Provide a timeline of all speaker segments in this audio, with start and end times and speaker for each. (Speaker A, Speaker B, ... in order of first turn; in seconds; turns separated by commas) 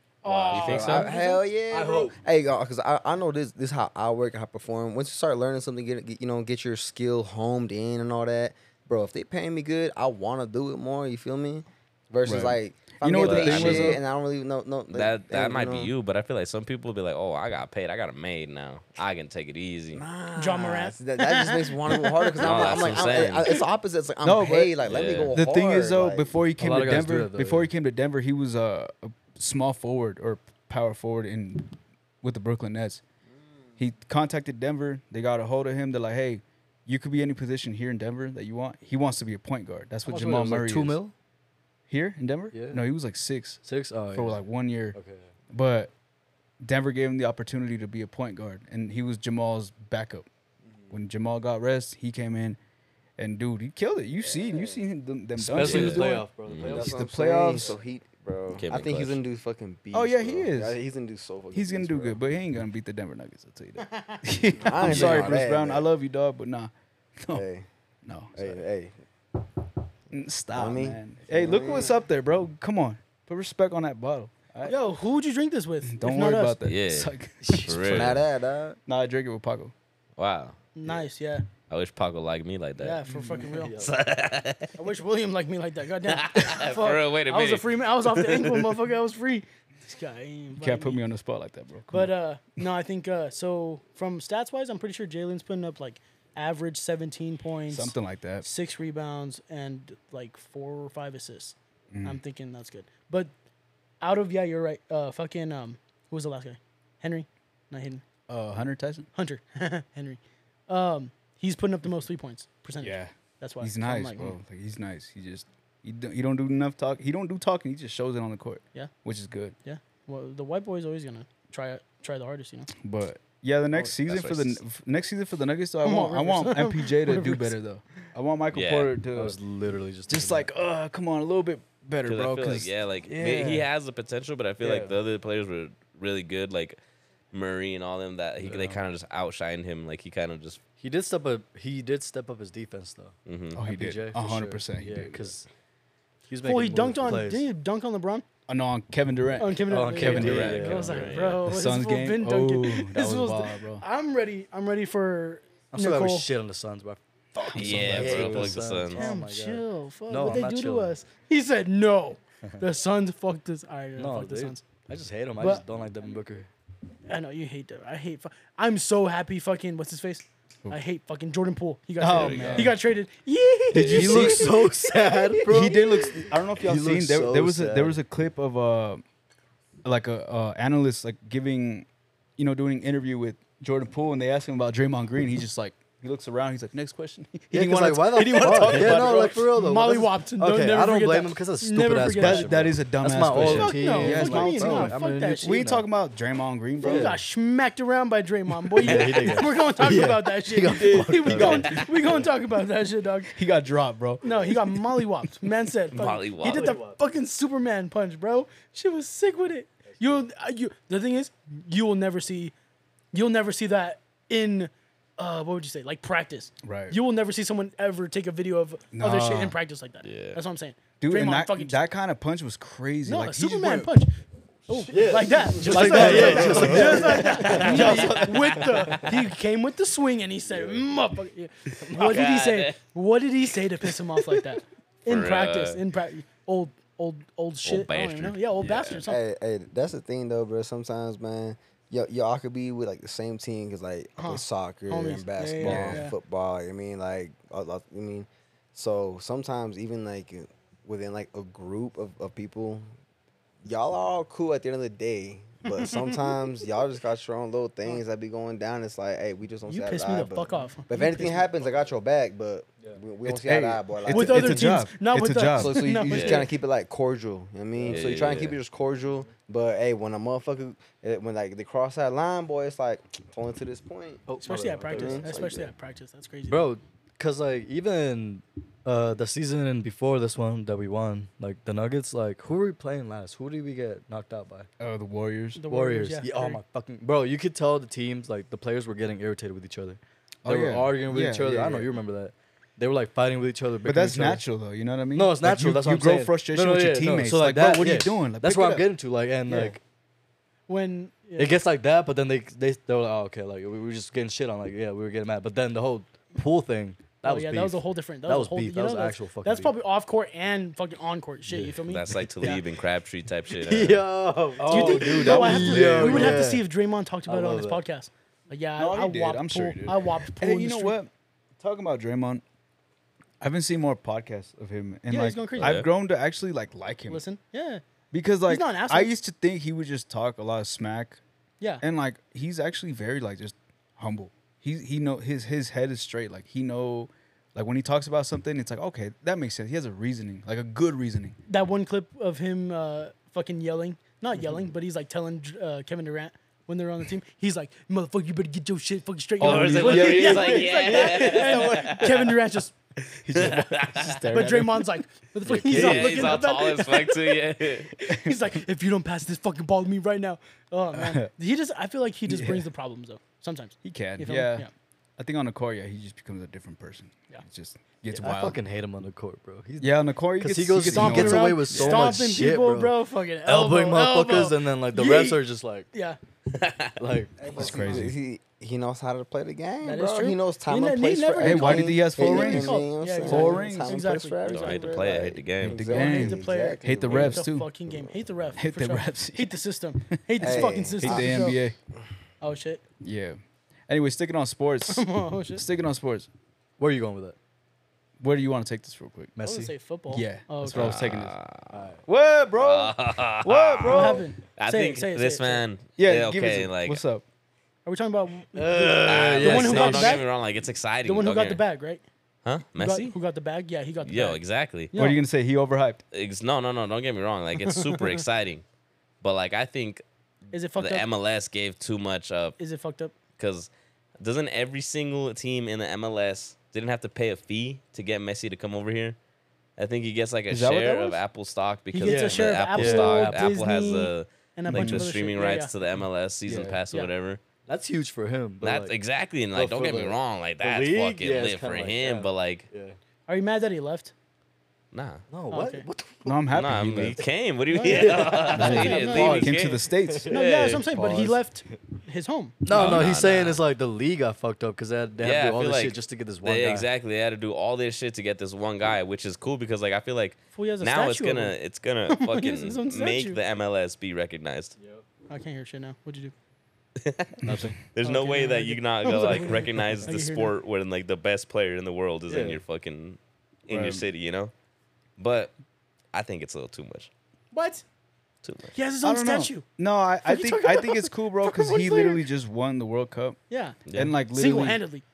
Speaker A: 0.2-1.9, Speaker B: 0.3-15.9, Speaker C: 0.4-1.1, Speaker D: 1.7-2.1, Speaker E: 12.2-14.0, Speaker C: 13.2-14.0, Speaker C: 14.9-20.0, Speaker B: 19.9-26.3, Speaker A: 20.3-23.6, Speaker C: 22.4-23.6, Speaker E: 24.2-24.8, Speaker C: 24.8-25.3, Speaker E: 25.3-33.0, Speaker D: 26.6-27.7, Speaker E: 33.8-41.0, Speaker D: 40.0-41.1, Speaker E: 41.9-45.0, Speaker D: 42.5-42.8, Speaker D: 43.6-44.4, Speaker D: 44.9-45.3, Speaker E: 45.5-45.9, Speaker E: 46.6-50.3, Speaker E: 50.9-52.6, Speaker E: 53.2-57.7, Speaker B: 54.2-54.8, Speaker D: 55.4-57.7, Speaker C: 55.6-56.8, Speaker B: 56.6-62.2, Speaker C: 58.5-59.2, Speaker E: 59.9-60.8, Speaker E: 61.5-67.4, Speaker B: 64.6-65.9, Speaker B: 67.3-67.7, Speaker E: 68.0-68.6, Speaker B: 68.3-68.9, Speaker E: 70.1-74.8, Speaker B: 70.5-71.9, Speaker A: 74.6-76.6, Speaker E: 75.8-77.9, Speaker C: 76.6-77.1, Speaker D: 77.4-78.1, Speaker C: 77.6-78.2, Speaker B: 77.8-78.8, Speaker E: 78.8-79.7, Speaker C: 80.2-80.6, Speaker A: 80.7-81.4, Speaker C: 81.7-83.0, Speaker A: 82.8-83.8, Speaker E: 83.1-83.5, Speaker D: 83.6-83.9, Speaker C: 83.7-84.7, Speaker A: 84.8-91.0, Speaker C: 86.0-88.7, Speaker E: 90.6-92.6, Speaker A: 91.9-103.3, Speaker E: 97.7-98.5, Speaker E: 101.9-102.2, Speaker A: 104.0-108.0, Speaker E: 108.3-109.1, Speaker A: 109.1-114.4, Speaker E: 112.8-119.5, Speaker A: 119.6-122.7, Speaker E: 122.7-129.3, Speaker C: 124.0-124.6, Speaker A: 125.8-127.6, Speaker C: 128.5-128.9, Speaker D: 129.1-130.5, Speaker E: 130.1-133.7, Speaker C: 132.0-136.8, Speaker E: 134.6-134.9, Speaker C: 137.3-140.6, Speaker D: 138.4-138.8, Speaker D: 140.8-145.4, Speaker C: 143.2-143.6, Speaker E: 143.5-145.4, Speaker D: 146.3-147.5, Speaker A: 146.4-148.2, Speaker E: 148.5-153.8, Speaker A: 149.4-156.3, Speaker D: 149.7-151.2, Speaker C: 150.0-151.4, Speaker D: 155.7-160.9, Speaker E: 157.4-158.5, Speaker C: 157.5-159.0, Speaker A: 158.9-164.6, Speaker D: 164.0-166.5, Speaker A: 165.4-165.6, Speaker A: 167.1-176.1, Speaker E: 172.0-172.8, Speaker C: 172.1-172.8, Speaker E: 173.7-174.6, Speaker D: 173.8-175.8, Speaker E: 175.4-179.0, Speaker D: 176.6-178.0, Speaker E: 179.8-181.8, Speaker E: 182.4-189.4, Speaker D: 187.5-195.8, Speaker A: 188.1-192.6, Speaker E: 192.1-197.2, Speaker A: 193.3-195.7, Speaker D: 196.8-197.2, Speaker A: 196.8-203.3, Speaker D: 198.8-202.3, Speaker C: 198.8-199.3, Speaker E: 200.8-201.7, Speaker E: 203.3-204.5, Speaker A: 204.2-212.5, Speaker C: 205.9-206.8, Speaker D: 206.4-207.0, Speaker D: 209.9-210.2, Speaker A: 213.1-221.8, Speaker E: 216.6-217.0, Speaker E: 218.9-219.6, Speaker C: 220.0-220.4, Speaker E: 221.0-223.9, Speaker A: 223.1-224.1, Speaker A: 224.7-239.2, Speaker D: 224.9-229.1, Speaker E: 225.6-227.8, Speaker C: 227.3-229.1, Speaker C: 231.9-232.8, Speaker C: 235.1-235.8, Speaker C: 237.6-239.0, Speaker B: 239.0-252.9, Speaker A: 244.2-246.1, Speaker E: 245.6-246.0, Speaker B: 253.6-264.6, Speaker A: 255.6-256.5, Speaker A: 259.6-261.5, Speaker E: 263.2-265.8, Speaker A: 264.1-266.5, Speaker B: 265.6-274.3, Speaker C: 266.1-266.5, Speaker C: 267.9-268.6, Speaker D: 274.3-275.5, Speaker A: 274.4-276.7, Speaker B: 274.9-275.7, Speaker D: 276.5-284.7, Speaker E: 284.8-285.6, Speaker A: 285.6-286.6, Speaker D: 285.7-294.4, Speaker E: 290.4-291.9, Speaker E: 293.8-298.9, Speaker D: 295.1-299.8, Speaker A: 300.7-301.6, Speaker D: 301.4-309.7, Speaker A: 307.2-312.6, Speaker D: 311.5-311.8, Speaker C: 311.9-314.0, Speaker D: 313.6-316.7, Speaker E: 314.6-316.4, Speaker A: 314.6-321.0, Speaker D: 317.2-317.8, Speaker E: 318.8-322.4, Speaker E: 323.4-327.2, Speaker A: 325.1-325.8, Speaker C: 325.6-325.9, Speaker A: 327.1-327.8, Speaker E: 328.1-331.2, Speaker A: 328.5-329.1, Speaker E: 331.8-341.4, Speaker A: 341.5-352.7, Speaker E: 349.4-350.4, Speaker C: 349.4-352.4, Speaker D: 350.0-350.5, Speaker E: 353.2-354.9, Speaker C: 353.3-354.2, Speaker A: 354.3-357.4, Speaker D: 355.5-356.3, Speaker C: 355.5-357.9, Speaker A: 358.0-364.7, Speaker E: 360.9-361.3, Speaker E: 362.3-362.7, Speaker E: 363.8-368.6, Speaker D: 368.2-372.9, Speaker E: 369.8-372.1, Speaker A: 370.9-376.2, Speaker D: 373.4-375.9, Speaker C: 376.5-376.9, Speaker D: 377.0-377.9, Speaker B: 377.4-388.1, Speaker E: 377.5-378.1, Speaker A: 379.8-385.0, Speaker E: 381.4-384.0, Speaker C: 384.5-385.8, Speaker E: 385.6-387.7, Speaker A: 385.8-391.6, Speaker E: 388.6-389.6, Speaker E: 390.1-391.7, Speaker B: 390.4-391.5, Speaker A: 392.4-392.8, Speaker E: 393.0-396.3, Speaker A: 394.9-395.6, Speaker D: 396.8-397.3, Speaker E: 398.2-399.3, Speaker D: 399.4-399.7, Speaker A: 399.4-400.9, Speaker E: 400.1-401.3, Speaker C: 400.7-401.8, Speaker D: 401.7-402.0, Speaker E: 402.1-404.2, Speaker C: 402.6-407.0, Speaker A: 403.8-405.6, Speaker E: 406.0-407.2, Speaker A: 407.9-410.3, Speaker D: 408.5-410.2, Speaker C: 409.0-411.6, Speaker A: 411.0-412.0, Speaker C: 412.4-413.1, Speaker A: 412.7-414.4, Speaker C: 414.0-414.9, Speaker A: 414.9-415.2, Speaker E: 414.9-416.0, Speaker C: 416.1-418.6, Speaker A: 417.6-418.2, Speaker C: 419.2-420.0, Speaker A: 420.5-421.1, Speaker C: 420.8-422.5, Speaker A: 422.6-423.1, Speaker C: 423.4-423.7, Speaker C: 424.2-429.2, Speaker C: 429.8-437.4, Speaker E: 430.5-431.2, Speaker A: 431.9-435.7, Speaker D: 432.1-433.5, Speaker E: 434.7-435.1, Speaker E: 436.5-436.8, Speaker D: 437.7-438.9, Speaker C: 438.6-442.7, Speaker D: 439.5-443.0, Speaker A: 443.3-444.1, Speaker C: 444.9-445.2, Speaker D: 445.3-446.5, Speaker A: 445.5-445.9, Speaker E: 446.2-447.2, Speaker C: 446.5-450.9, Speaker D: 447.8-450.4, Speaker A: 447.8-449.4, Speaker E: 448.5-450.3, Speaker A: 450.3-452.6, Speaker E: 450.9-451.4, Speaker D: 452.6-456.9, Speaker C: 452.7-453.6, Speaker C: 455.2-464.7, Speaker A: 460.5-461.6, Speaker A: 462.1-463.4, Speaker A: 465.3-466.3, Speaker C: 467.0-474.5, Speaker D: 467.4-467.8, Speaker A: 468.0-470.5, Speaker D: 472.3-472.6, Speaker E: 473.7-474.0, Speaker C: 475.2-475.5, Speaker C: 476.1-477.1, Speaker A: 477.5-477.8, Speaker C: 478.4-478.7, Speaker A: 478.7-479.6, Speaker E: 479.0-483.4, Speaker A: 480.2-482.2, Speaker A: 483.5-485.0, Speaker C: 483.9-484.1, Speaker E: 483.9-484.8